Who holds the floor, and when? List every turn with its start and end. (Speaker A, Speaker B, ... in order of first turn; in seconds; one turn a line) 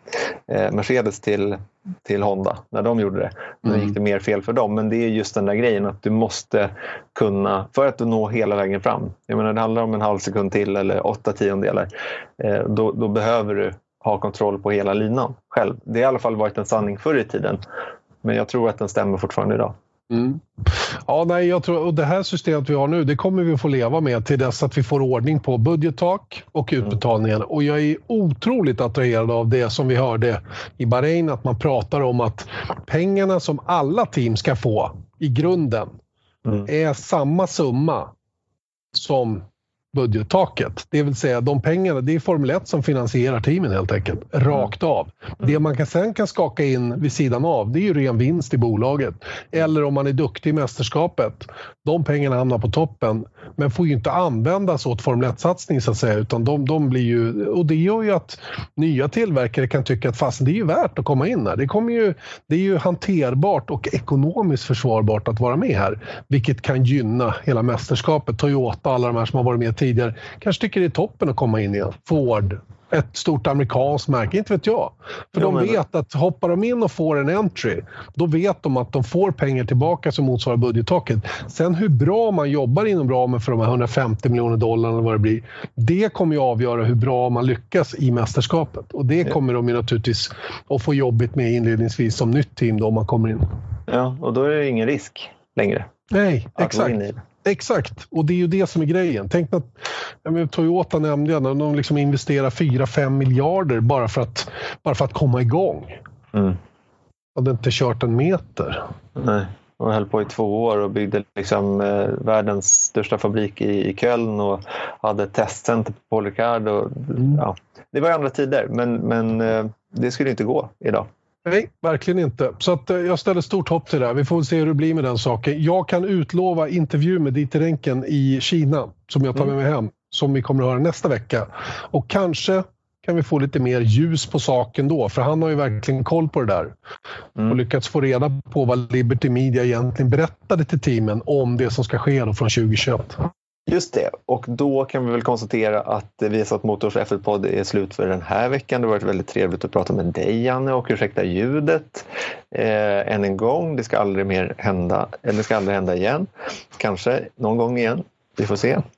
Speaker A: 0.5-17.6
Speaker A: 18.2-19.8
Speaker B: 20.1-20.4
Speaker B: 21.1-36.0
Speaker B: 36.6-38.1
Speaker B: 38.9-93.5
Speaker A: 75.3-75.8
Speaker A: 93.9-95.9
Speaker B: 96.1-99.7
Speaker A: 96.6-97.2
Speaker B: 100.2-106.0
Speaker B: 107.4-108.8
Speaker A: 109.2-121.1
Speaker B: 121.5-136.7
Speaker B: 137.5-143.2
Speaker A: 143.7-158.8